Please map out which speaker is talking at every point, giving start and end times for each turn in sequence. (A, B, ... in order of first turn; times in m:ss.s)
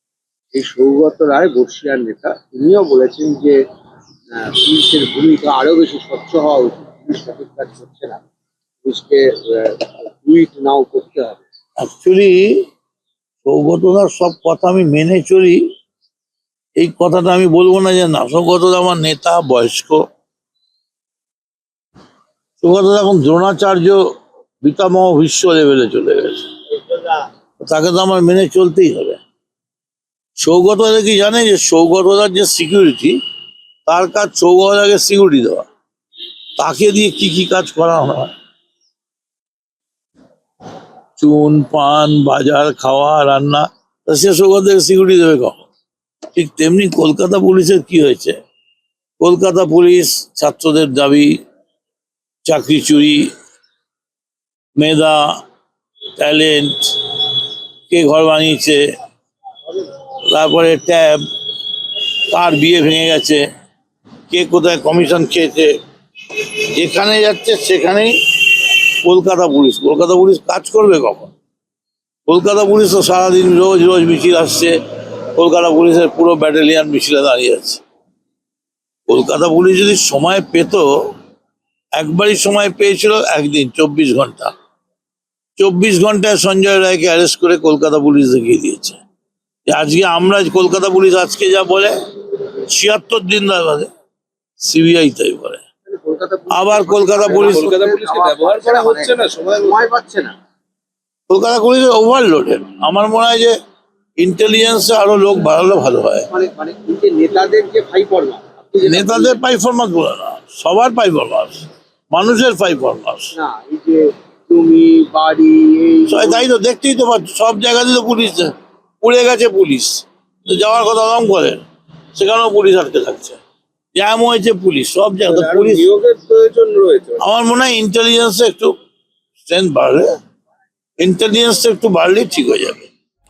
0:00.5-0:03.6 A
0:04.3-0:08.2 A
0:08.8-0:11.4 A
0:11.8-0:12.7 B
0:13.4-0:15.6 B
0:16.8-0:20.0 B
0:22.6-0:24.0 B
0:24.6-0:29.2 B
0:30.4-0:33.2 B
0:33.8-0:35.7 B
0:36.6-0:38.3 B
0:41.2-0:45.6 B
0:46.3-0:48.4 B
0:49.2-0:51.4 B
0:52.4-0:53.3 B
0:54.8-0:55.2 B
0:56.2-0:58.8 B
1:00.3-1:01.2 B
1:02.3-1:03.4 B
1:04.3-1:05.7 B
1:06.3-1:11.3 B
1:12.3-1:14.8 B
1:15.3-1:17.8 B
1:19.1-1:21.1 B
1:22.0-1:24.5 B
1:25.6-1:29.0 B
1:29.7-1:33.9 B
1:34.6-1:35.6 B
1:35.9-1:40.3 A
1:36.5-1:37.7 B
1:37.3-1:39.5 C
1:41.3-1:43.6 B
1:44.2-1:46.3 B
1:46.3-1:49.4 A
1:48.9-1:53.3 B
1:53.3-1:56.4 A
1:56.1-2:01.6 B
2:02.1-2:03.4 B
2:03.9-2:05.9 B
2:05.6-2:07.2 C
2:06.0-2:06.9 A
2:07.2-2:08.7 B
2:09.5-2:10.2 B
2:11.0-2:12.9 B